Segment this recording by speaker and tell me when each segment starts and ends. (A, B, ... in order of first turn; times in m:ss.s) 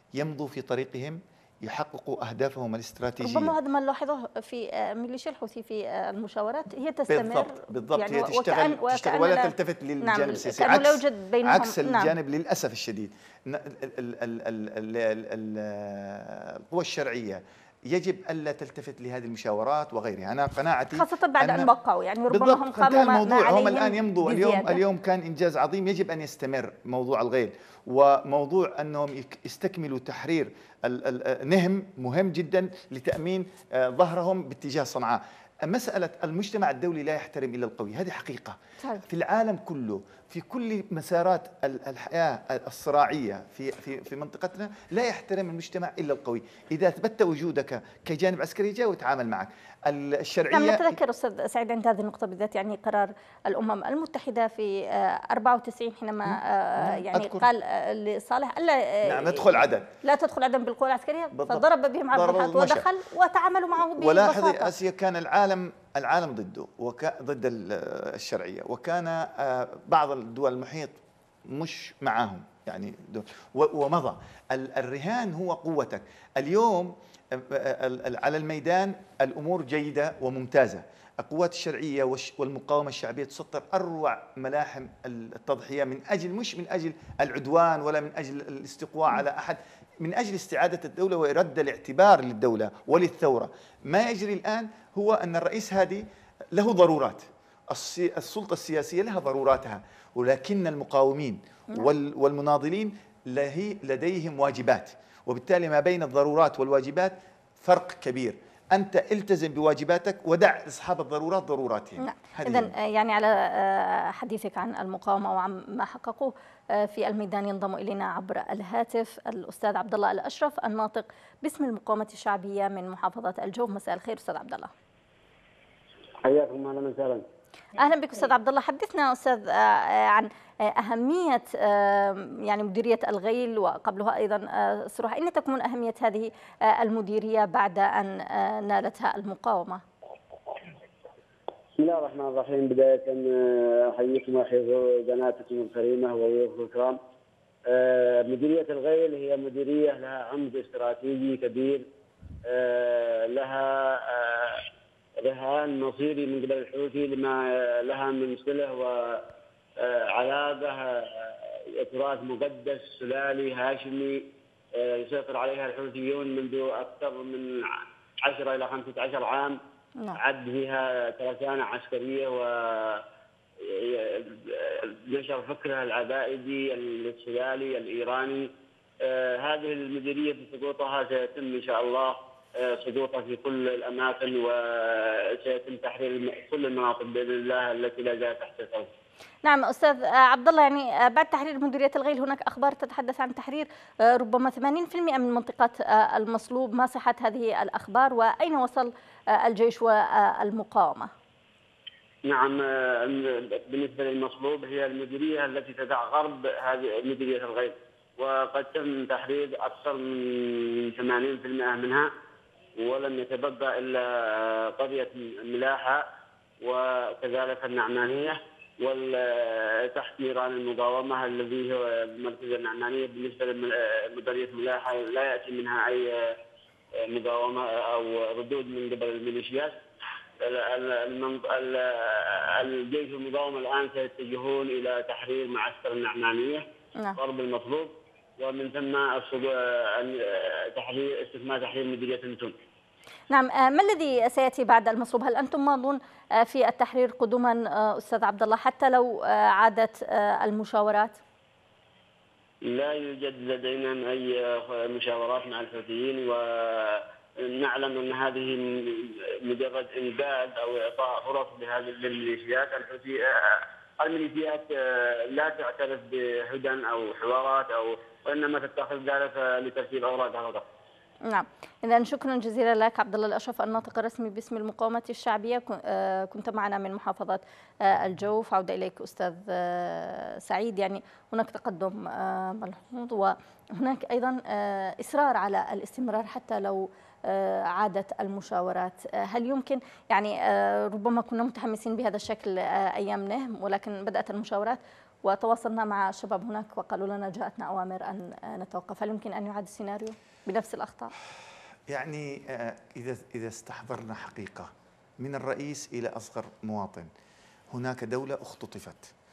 0:00.2-0:03.6 A
0:03.2-0:12.1 B
0:07.1-0:21.7 A
0:20.9-0:24.8 B
0:22.3-0:51.0 A
0:50.5-1:04.7 B
0:56.3-0:57.5 A
0:59.0-0:59.9 A
1:01.3-1:02.9 A
1:04.0-1:52.7 A
1:52.0-2:04.7 B
2:06.2-2:07.2 C
2:07.8-2:19.8 B
2:21.8-2:27.0 C
2:27.7-2:31.9 C
2:32.4-2:34.7 C
2:35.2-2:49.6 C
2:50.2-2:53.0 C
2:53.6-3:08.9 C
3:09.4-3:21.1 B
3:22.2-3:32.1 C
3:32.8-3:36.1 C
3:36.6-3:46.4 C
3:47.0-3:49.8 C
3:50.4-3:56.7 C
3:57.2-4:02.6 C
4:03.3-4:11.2 B
4:12.6-4:30.6 C
4:31.3-5:01.1 B
5:01.9-5:07.1 A
5:07.7-5:09.1 A